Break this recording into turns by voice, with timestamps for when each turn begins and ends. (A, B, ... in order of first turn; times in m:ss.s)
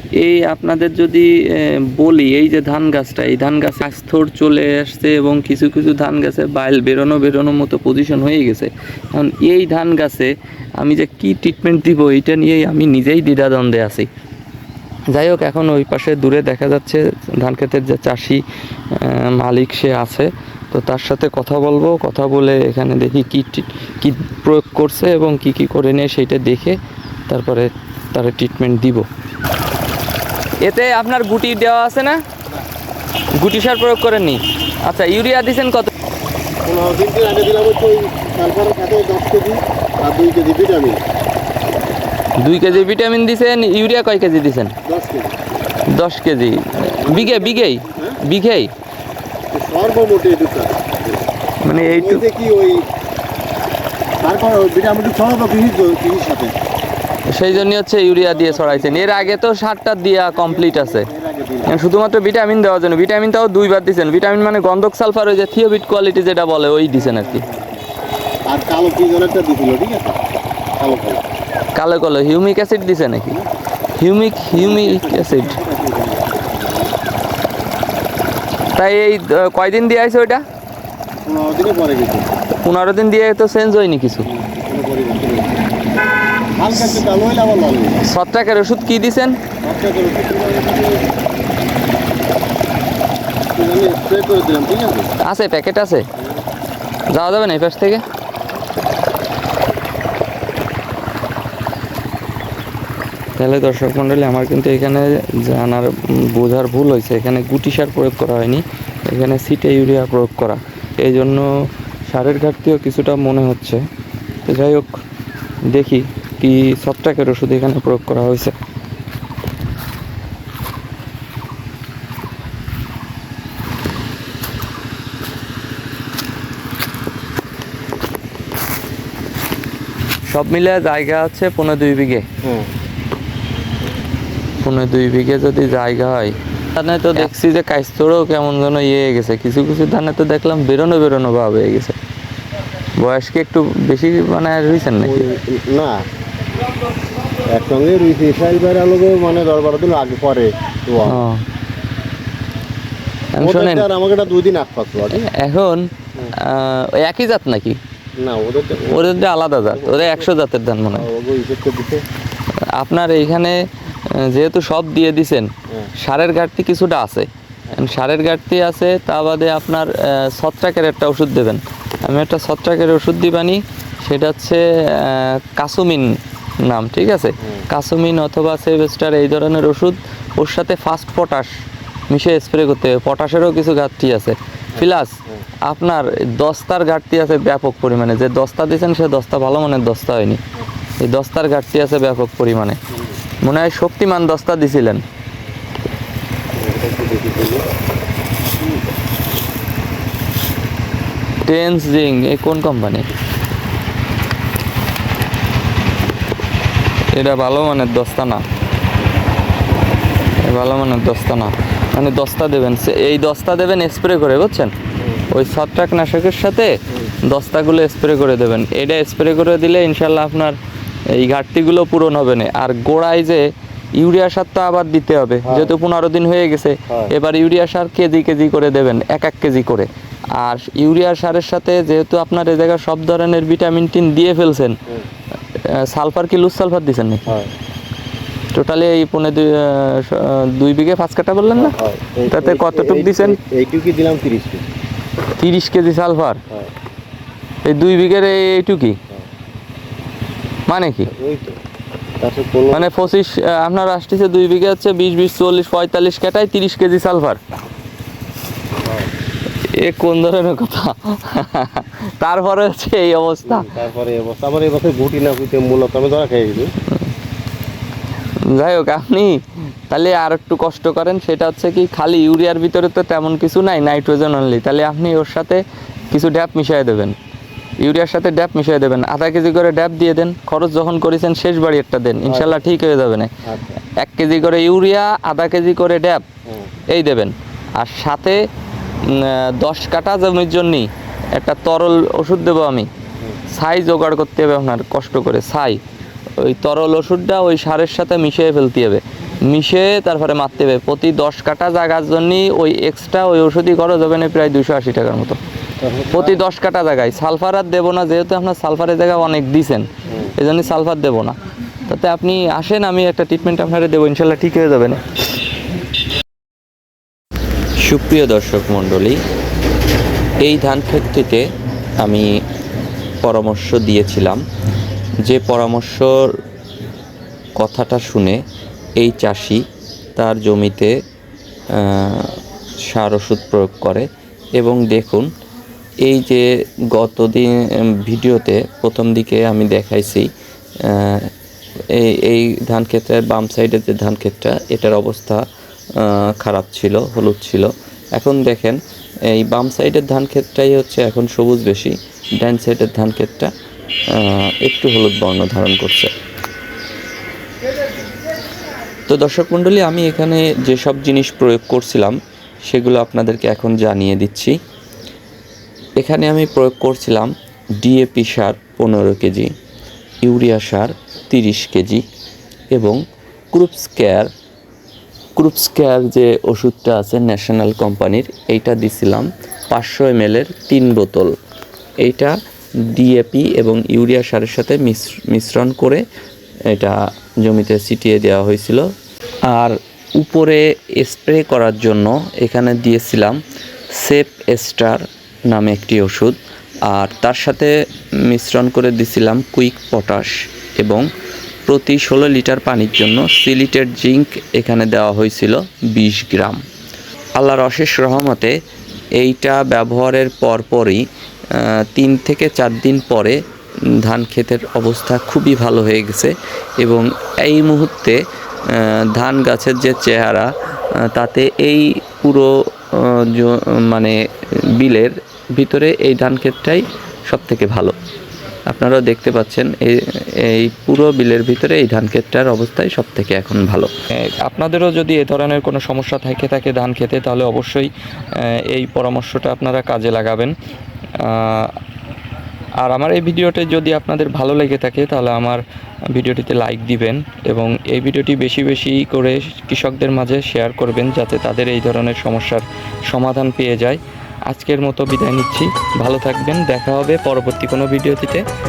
0:00.2-0:14.1 A
0:15.1-0:18.4 A
0:18.9-0:29.0 A
0:30.6-0:32.2 A
0:33.3-0:35.9 A
0:36.6-0:41.0 B
0:42.4-0:44.7 A
0:44.9-0:45.4 B
0:45.9-0:48.7 A
0:46.7-0:48.2 B
0:49.5-0:52.8 B
0:51.6-0:52.2 A
0:54.2-0:56.5 B
0:57.3-1:01.1 A
0:57.5-0:59.4 B
1:00.3-1:01.8 B
1:01.6-1:07.4 A
1:07.0-1:07.8 B
1:08.5-1:10.2 B
1:10.8-1:11.2 B
1:11.7-1:13.4 A
1:14.0-1:15.6 A
1:14.5-1:17.0 B
1:18.7-1:20.4 A
1:21.2-1:22.3 B
1:22.6-1:24.3 A
1:24.3-1:25.6 B
1:26.6-1:28.0 B
1:28.0-1:29.4 A
1:29.6-1:31.2 B
1:33.5-1:35.1 B
1:35.2-1:36.0 A
1:37.1-1:38.0 A
1:43.4-1:53.8 A
1:54.4-1:55.0 A
1:55.7-1:58.6 A
2:10.3-2:12.2 A
2:12.4-2:12.7 B
2:14.6-2:22.0 A
2:23.0-2:25.2 A
2:25.0-2:26.0 B
2:27.5-2:31.2 B
2:31.0-2:31.4 A
2:33.3-2:33.9 A
2:33.4-2:35.3 B
2:35.0-2:37.8 A
2:38.2-2:40.3 B
2:38.9-2:41.1 A
2:40.9-2:42.0 B
2:42.7-3:01.5 A
2:57.4-2:57.7 B
3:02.1-3:10.4 A
3:04.8-3:05.4 B
3:11.0-3:12.8 A
3:12.9-3:13.2 B
3:13.4-3:15.0 A
3:16.6-3:17.6 B
3:21.4-3:23.1 A
3:27.1-3:28.4 A
3:30.4-3:34.7 A
3:35.3-3:40.6 A
3:41.1-3:54.8 A
3:45.4-3:45.8 B
3:46.9-3:47.1 B
3:55.5-3:57.2 A
3:57.3-3:57.5 B
3:58.5-4:01.7 A
4:01.5-4:04.7 B
4:02.3-4:03.4 A
4:05.4-4:06.4 A
4:07.6-4:09.0 A
4:10.7-4:11.1 A
4:11.1-4:11.6 B
4:12.2-4:12.9 B
4:12.7-4:17.4 A
4:18.8-4:19.1 B
4:19.7-4:23.7 A
4:23.5-4:26.7 B
4:28.4-4:37.2 A
4:37.8-4:43.3 A
4:42.2-4:42.5 B
4:43.4-4:43.8 B
4:43.8-4:46.2 A
4:46.5-4:46.7 B
4:46.9-4:48.4 A
4:49.0-4:52.9 A
4:53.5-4:55.8 A
4:56.4-5:05.4 A
5:05.8-5:06.4 B
5:06.1-5:11.3 A
5:10.1-5:10.3 B
5:11.8-5:15.0 A
5:17.8-5:19.2 A
5:20.4-5:21.5 A
5:22.0-5:22.4 A
5:23.2-5:24.4 A
5:25.2-5:26.4 A
5:27.6-5:28.4 A
5:29.0-5:29.6 A
5:30.2-5:30.9 A
5:31.7-5:35.3 A
5:36.0-5:40.3 A
5:40.8-5:41.3 A
5:41.9-5:45.4 A
5:46.0-5:53.5 A
5:54.1-5:56.1 A
5:59.1-6:04.6 A
6:06.0-6:09.5 A
6:10.2-6:12.0 A
6:12.7-6:14.3 A
6:15.4-6:21.4 A
6:22.0-6:26.0 A
6:26.7-6:28.9 A
6:29.4-6:33.4 A
6:33.9-6:41.1 A
6:41.6-6:46.6 A
6:47.3-6:48.6 A
6:49.2-6:53.4 A
6:53.9-7:08.0 A
7:08.7-7:20.5 A
7:21.2-7:21.8 A
7:22.8-7:38.4 A